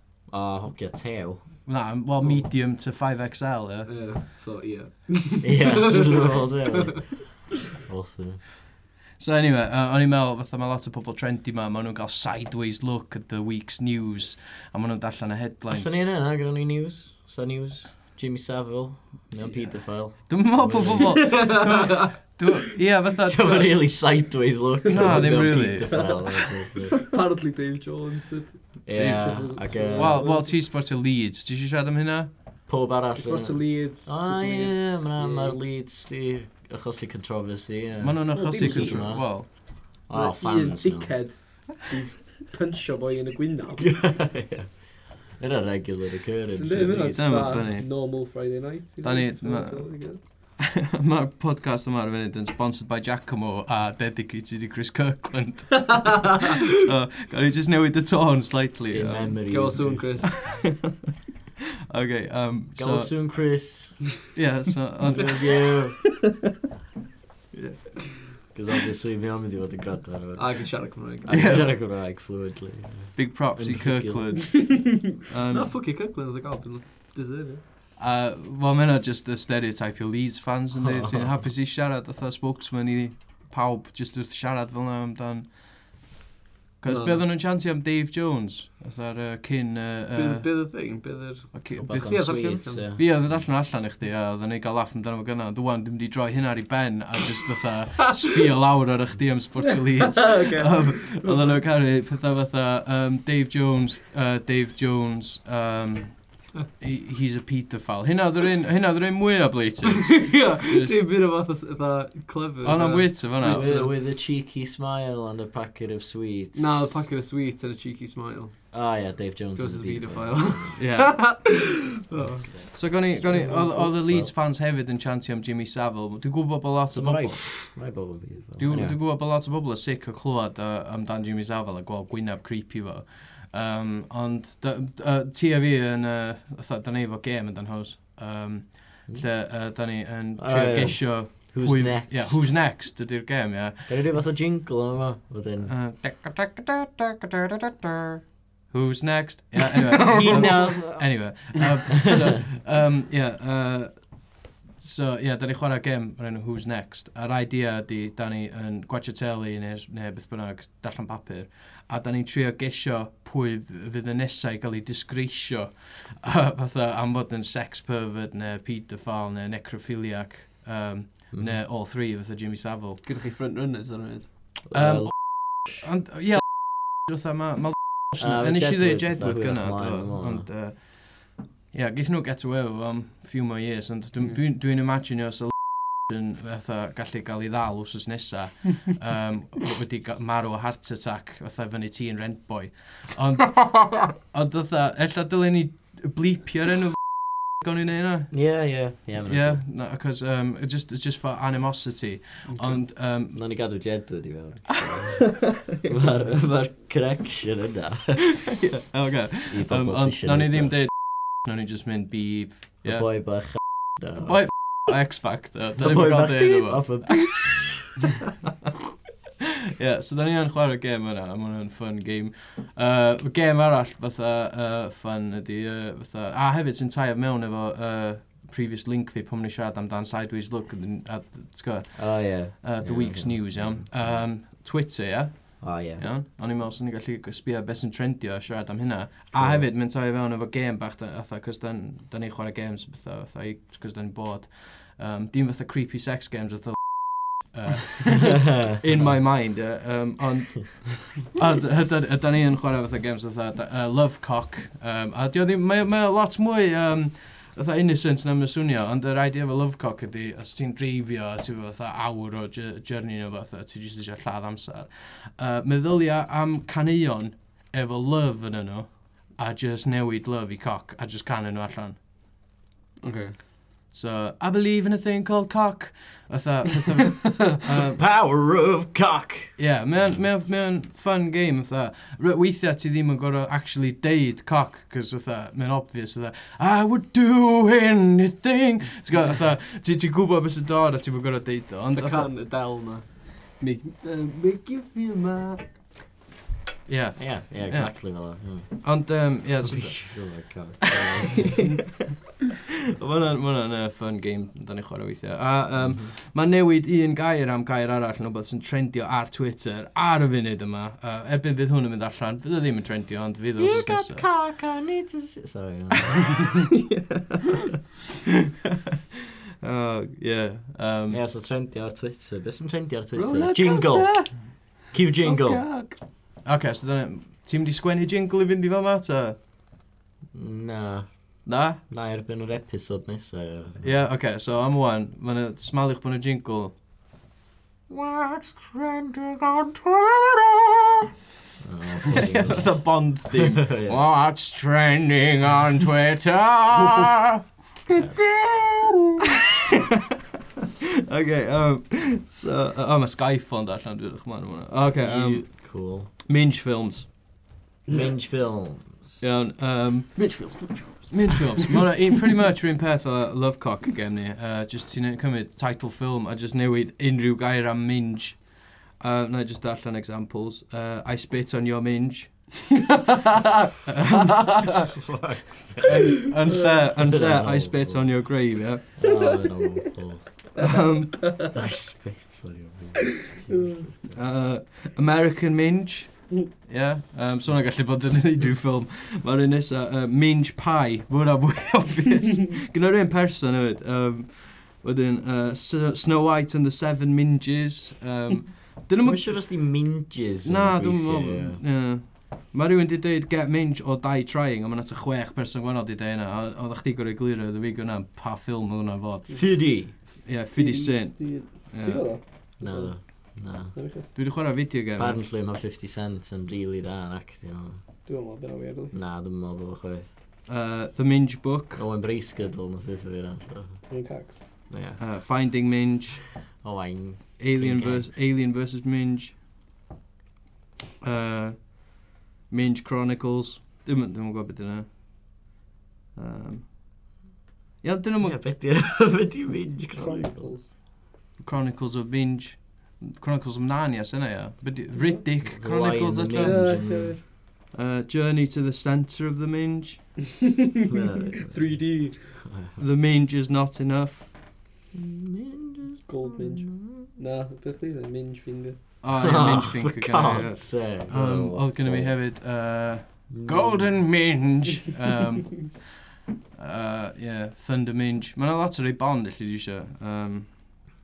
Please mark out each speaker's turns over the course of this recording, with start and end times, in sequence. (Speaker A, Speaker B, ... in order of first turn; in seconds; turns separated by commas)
Speaker A: 0.3-1.6, Speaker B: 1.7-3.9, Speaker C: 2.2-2.5, Speaker C: 3.9-7.0, Speaker A: 5.4-8.4, Speaker B: 9.2-16.0, Speaker A: 15.7-21.6, Speaker B: 20.3-23.9, Speaker C: 21.0-22.0, Speaker A: 23.2-27.1, Speaker B: 24.9-26.0, Speaker C: 25.9-30.5, Speaker A: 28.9-30.2, Speaker B: 29.0-32.3, Speaker A: 32.7-41.2, Speaker C: 33.1-35.6, Speaker B: 38.0-39.5, Speaker C: 38.3-39.3, Speaker C: 40.1-43.9, Speaker A: 43.8-47.6, Speaker C: 46.6-50.2, Speaker B: 47.1-47.9, Speaker B: 49.0-59.6, Speaker A: 58.9-60.5, Speaker C: 59.5-60.5, Speaker B: 60.5-60.9, Speaker B: 61.9-63.1, Speaker A: 62.8-64.0, Speaker B: 64.3-65.4, Speaker A: 65.2-66.1, Speaker B: 67.5-68.1, Speaker A: 68.5-74.4, Speaker C: 70.4-71.7, Speaker B: 71.3-71.7, Speaker B: 73.2-75.7, Speaker C: 74.6-75.0, Speaker C: 75.5-77.6, Speaker B: 78.0-85.7, Speaker A: 80.8-81.4, Speaker B: 86.8-90.5, Speaker C: 86.8-87.2, Speaker C: 90.1-92.8, Speaker B: 91.5-111.0, Speaker A: 91.8-93.5, Speaker C: 100.2-101.6, Speaker C: 110.0-113.8, Speaker B: 112.6-113.9, Speaker A: 113.4-117.0, Speaker C: 116.6-118.6, Speaker A: 118.7-120.8, Speaker C: 119.5-123.9, Speaker B: 120.8-121.3, Speaker A: 122.2-124.3, Speaker B: 122.7-127.6, Speaker A: 126.9-129.0, Speaker B: 128.6-144.2, Speaker A: 139.1-139.3, Speaker A: 140.4-142.6, Speaker A: 143.9-145.7, Speaker B: 145.7-148.2, Speaker B: 148.7-173.0, Speaker C: 150.1-150.7, Speaker A: 150.1-151.5, Speaker A: 171.3-171.6, Speaker C: 173.0-174.3, Speaker A: 174.7-175.8, Speaker B: 174.7-198.3, Speaker A: 178.2-180.5, Speaker A: 198.3-199.6, Speaker B: 199.2-203.4, Speaker C: 202.5-202.8, Speaker A: 203.3-208.3, Speaker B: 208.6-213.1, Speaker A: 209.5-210.7, Speaker A: 212.8-214.7, Speaker B: 214.2-217.4, Speaker A: 215.8-217.8, Speaker B: 219.8-272.0, Speaker A: 231.9-234.2, Speaker A: 235.6-236.1, Speaker A: 239.3-239.7, Speaker C: 273.0-273.4, Speaker B: 273.9-278.0, Speaker A: 277.6-280.3, Speaker B: 279.6-292.3, Speaker C: 291.9-295.6, Speaker B: 296.9-300.5, Speaker A: 297.2-298.9, Speaker A: 299.6-301.8, Speaker B: 301.0-301.6, Speaker B: 303.0-314.3, Speaker A: 305.8-306.1, Speaker A: 313.6-316.4, Speaker B: 316.3-317.8, Speaker B: 319.6-321.2, Speaker A: 321.1-325.7, Speaker C: 323.1-324.5, Speaker C: 325.2-326.0, Speaker B: 326.4-329.4, Speaker A: 330.3-333.9, Speaker B: 331.4-331.8, Speaker B: 333.8-336.8, Speaker A: 337.9-340.1, Speaker A: 341.6-344.0, Speaker B: 342.1-347.4, Speaker B: 351.1-357.1, Speaker A: 355.0-356.1, Speaker A: 357.9-359.1, Speaker B: 359.2-360.6, Speaker C: 360.2-361.8, Speaker B: 361.1-372.8, Speaker B: 373.9-374.7, Speaker A: 374.9-376.3, Speaker B: 375.8-379.3, Speaker A: 377.1-378.4, Speaker A: 379.0-380.7, Speaker B: 380.6-381.4, Speaker A: 381.4-384.2, Speaker C: 383.5-383.8, Speaker B: 384.1-399.6, Speaker A: 399.0-401.6, Speaker B: 400.4-409.6, Speaker A: 409.3-410.0, Speaker B: 410.2-412.1, Speaker C: 410.6-414.1, Speaker A: 412.6-413.8, Speaker B: 414.1-415.2, Speaker A: 415.0-417.8, Speaker C: 418.1-419.0, Speaker A: 418.9-420.1, Speaker B: 420.5-421.8, Speaker A: 421.8-424.0, Speaker C: 423.9-424.4, Speaker A: 424.7-425.0, Speaker B: 425.0-426.4, Speaker A: 426.6-428.1, Speaker B: 427.4-429.4, Speaker B: 431.0-432.0, Speaker B: 432.5-434.9, Speaker B: 436.1-436.7, Speaker B: 437.8-438.4, Speaker A: 438.2-440.6, Speaker C: 440.0-440.7, Speaker B: 441.4-446.8, Speaker A: 445.4-447.2, Speaker C: 446.4-447.2, Speaker B: 447.7-450.1, Speaker A: 450.9-451.9, Speaker C: 451.4-452.5, Speaker A: 452.5-452.7, Speaker B: 452.8-454.3, Speaker A: 454.9-457.1, Speaker C: 456.1-459.0, Speaker B: 459.0-466.0, Speaker A: 459.1-462.2, Speaker A: 463.3-464.1, Speaker B: 466.6-470.5